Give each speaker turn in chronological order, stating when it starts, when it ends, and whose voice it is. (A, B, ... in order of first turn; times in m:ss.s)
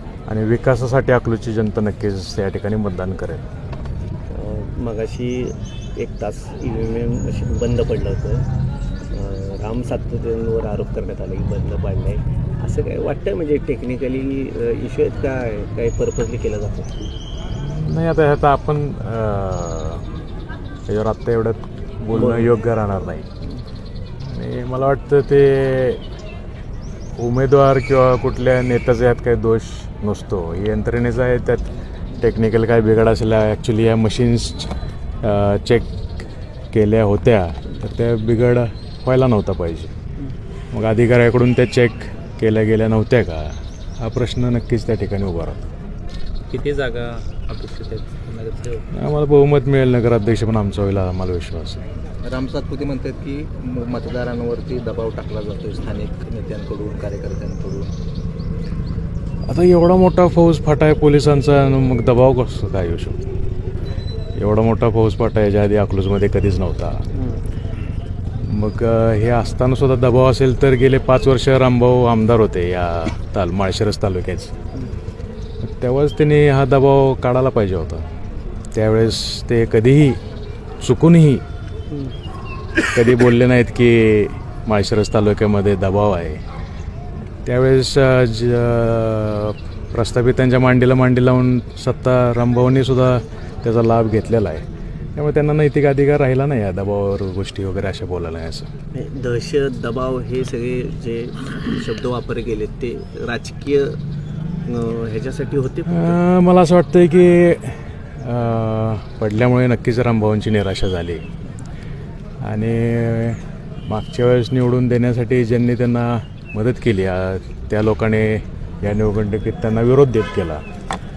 0:00.3-0:03.4 A
0:04.3-0:08.5 B
0:09.1-0:16.9 B
0:17.5-0:20.1 A
0:20.9-0:23.3 A
0:22.1-0:22.6 B
0:24.2-0:26.0 A
0:27.1-0:36.0 A
0:36.7-0:39.9 A
0:40.7-0:45.6 A
0:46.5-0:48.8 C
0:48.9-0:51.8 A
0:52.2-0:57.9 D
0:59.5-1:03.2 A
1:04.4-1:07.0 A
1:08.4-1:14.5 A
1:15.6-1:18.1 A
1:18.7-1:20.2 A
1:20.8-1:21.4 A
1:22.9-1:26.4 A
1:27.4-1:34.6 A
1:35.2-1:38.7 A
1:38.9-1:44.0 B
1:44.6-1:46.2 B
1:45.9-1:51.2 A
1:52.4-2:00.6 A